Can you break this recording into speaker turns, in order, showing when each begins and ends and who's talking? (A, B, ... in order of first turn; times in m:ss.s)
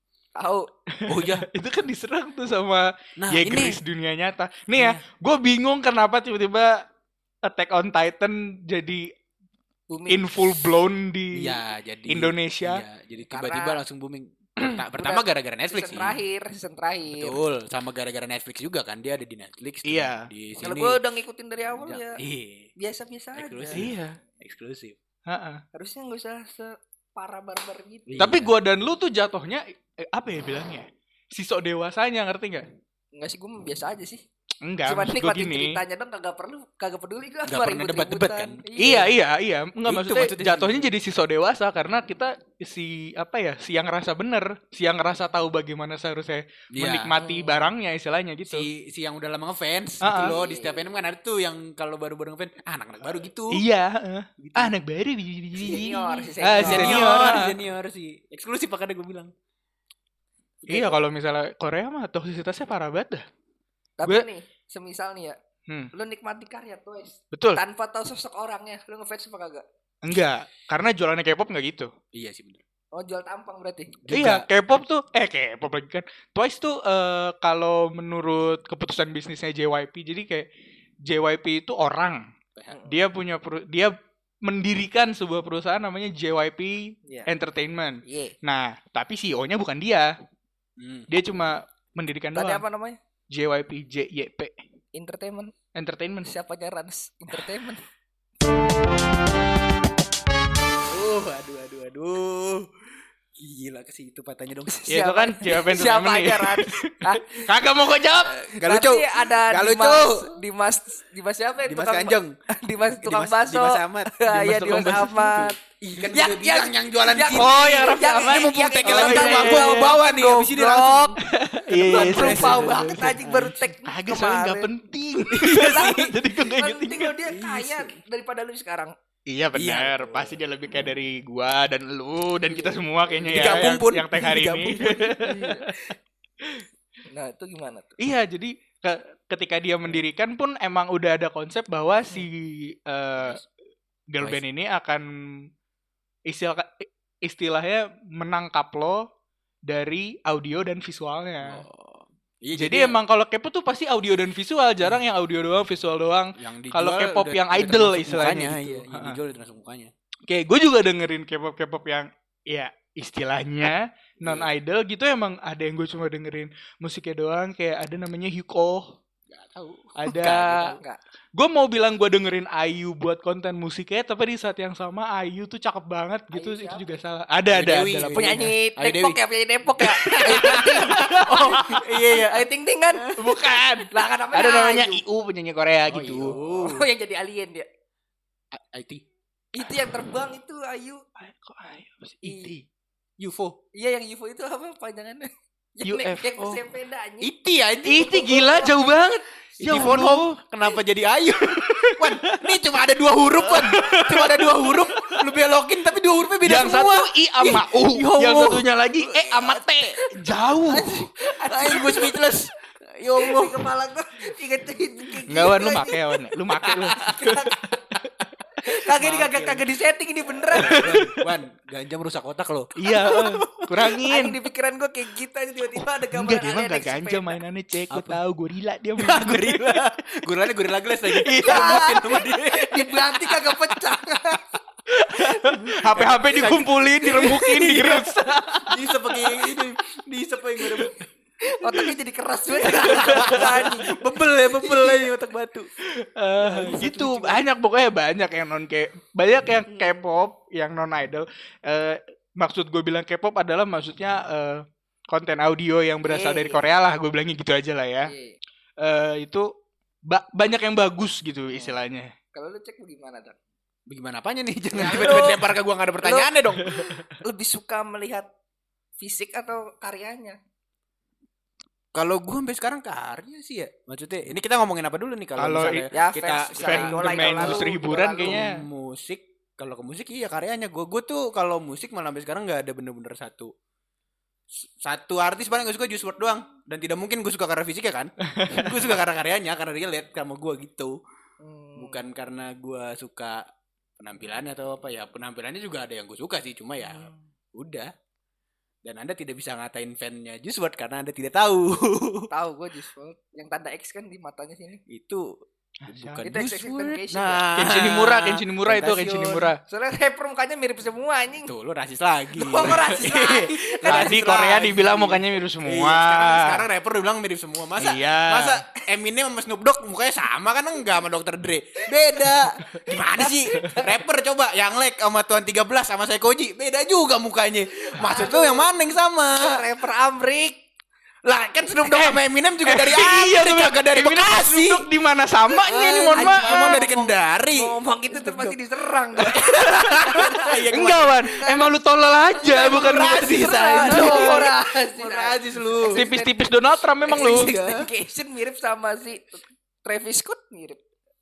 0:00.4-0:00.7 A
0:01.0-0:06.8 B
0:01.1-0:01.5 C
0:03.2-0:03.8 C
0:04.8-0:05.0 C
0:07.4-0:09.1 B
0:09.9-0:10.4 A
0:10.1-0:12.8 B
0:11.4-0:16.2 C
0:13.3-0:13.8 A
0:15.0-0:17.4 A
0:17.2-0:21.0 C
0:19.9-0:20.3 B
0:20.6-0:22.2 A
0:21.8-0:22.7 C
0:22.8-0:23.9 A
0:23.4-0:25.0 C
0:23.7-0:24.2 B
0:25.3-0:25.6 B
0:25.7-0:28.3 A
0:28.1-0:28.5 C
0:28.2-0:32.7 B
0:33.1-0:34.2 A
0:34.6-0:35.8 B
0:34.9-0:39.1 A
0:37.5-0:39.0 C
0:38.8-0:48.7 B
0:39.9-0:40.9 C
0:46.7-0:47.2 C
0:47.2-0:47.7 A
0:48.4-0:53.6 C
0:50.0-0:50.3 B
0:50.1-0:50.8 A
0:53.5-0:57.6 B
0:54.4-0:54.8 C
0:55.6-0:57.1 A
0:56.6-0:59.3 C
1:00.7-1:00.9 C
1:00.7-1:03.3 B
1:04.0-1:05.4 A
1:05.9-1:09.6 A
1:07.3-1:07.6 B
1:10.0-1:11.9 B
1:12.1-1:12.6 C
1:12.9-1:14.0 A
1:14.0-1:14.5 C
1:14.1-1:20.5 B
1:21.1-1:22.3 B
1:22.7-1:23.0 A
1:22.9-1:30.1 B
1:28.1-1:28.4 A
1:30.8-1:31.1 C
1:31.1-1:32.6 B
1:32.4-1:33.0 A
1:33.3-1:34.6 B
1:34.9-1:35.5 A
1:35.8-1:36.3 B
1:36.2-1:37.8 A
1:40.9-1:42.7 C
1:43.4-1:44.9 C
1:44.7-1:47.5 A
1:44.9-1:48.5 B
1:48.4-1:50.4 C
1:48.5-2:01.2 A
1:51.6-1:52.4 C
1:53.0-2:03.6 C
1:57.3-2:00.0 B
2:01.3-2:03.2 B
2:01.8-2:04.7 A
2:03.8-2:07.2 B
2:05.3-2:06.2 C
2:05.5-2:08.9 A
2:07.2-2:08.0 C
2:09.3-2:16.7 B
2:09.5-2:10.4 C
2:13.2-2:15.5 C
2:15.3-2:15.6 A
2:17.1-2:18.0 A
2:18.0-2:23.4 B
2:24.1-2:25.4 B
2:26.3-2:29.0 B
2:29.7-2:31.6 B
2:31.4-2:33.0 C
2:32.6-2:39.2 B
2:36.4-2:39.9 C
2:40.3-2:49.0 B
2:44.2-2:44.5 C
2:49.3-2:50.8 C
2:50.0-2:50.8 B
2:51.4-2:58.5 B
2:56.3-2:56.8 A
2:57.5-2:59.2 C
2:58.1-3:03.2 A
2:59.8-3:03.2 C
3:00.2-3:01.8 B
3:03.2-3:06.3 B
3:03.9-3:05.0 A
3:05.9-3:06.9 C
3:06.3-3:07.7 A
3:08.5-3:09.0 C
3:09.5-3:11.0 A
3:11.2-3:12.6 B
3:12.2-3:12.5 A
3:13.2-3:13.6 C
3:13.8-3:17.3 A
3:15.8-3:16.6 B
3:17.2-3:18.6 C
3:17.8-3:20.4 B
3:19.6-3:30.0 C
3:21.5-3:22.6 B
3:23.4-3:25.2 B
3:26.4-3:31.1 B
3:30.7-3:32.4 A
3:30.9-3:33.7 C
3:33.2-3:36.0 A
3:35.3-3:38.3 B
3:36.6-3:37.6 A
3:36.9-3:37.5 C
3:38.6-3:40.9 A
3:38.9-3:39.6 C
3:40.5-3:43.5 C
3:40.6-3:41.2 B
3:42.8-3:44.4 B
3:43.1-3:47.4 A
3:46.1-3:49.8 B
3:47.9-3:48.2 C
3:49.0-3:53.6 C
3:51.1-3:52.1 B
3:51.4-3:54.5 A
3:54.9-3:58.8 B
3:55.6-4:01.0 C
4:01.5-4:05.1 A
4:02.6-4:05.7 C
4:02.7-4:03.7 B
4:06.0-4:18.1 B
4:06.4-4:07.4 C
4:09.7-4:10.0 A
4:16.0-4:16.6 A
4:18.1-4:18.4 A
4:18.8-4:19.5 B
4:20.1-4:22.1 B
4:22.3-4:23.4 A
4:23.9-4:26.8 C
4:24.7-4:28.3 A
4:26.6-4:27.0 B
4:29.0-4:30.4 A
4:31.9-4:43.5 C
4:35.4-4:35.9 B
4:35.9-4:38.5 A
4:36.6-4:38.6 B
4:44.6-4:51.0 C
4:48.3-4:48.8 B
4:51.4-4:52.0 A
4:51.8-4:53.4 C
4:54.0-4:57.9 C
4:56.9-4:57.1 A
4:58.8-5:02.3 C
5:02.3-5:04.8 A
5:04.9-5:09.5 C
5:05.8-5:06.2 B
5:06.2-5:07.5 A
5:07.6-5:09.6 B
5:09.7-5:11.5 A
5:11.4-5:29.6 C
5:12.4-5:14.7 A
5:13.8-5:16.7 B
5:17.8-5:18.6 B
5:23.2-5:24.0 A
5:28.0-5:28.8 A
5:29.3-5:30.6 A
5:31.2-5:34.9 C
5:32.6-5:36.9 B
5:35.7-5:38.6 C
5:36.1-5:40.6 A
5:39.2-5:41.5 C
5:39.4-5:40.0 B
5:40.7-5:44.5 B
5:42.4-5:46.5 A
5:42.5-5:46.0 C
5:45.9-5:47.5 B
5:47.0-5:50.8 A
5:47.1-5:47.9 C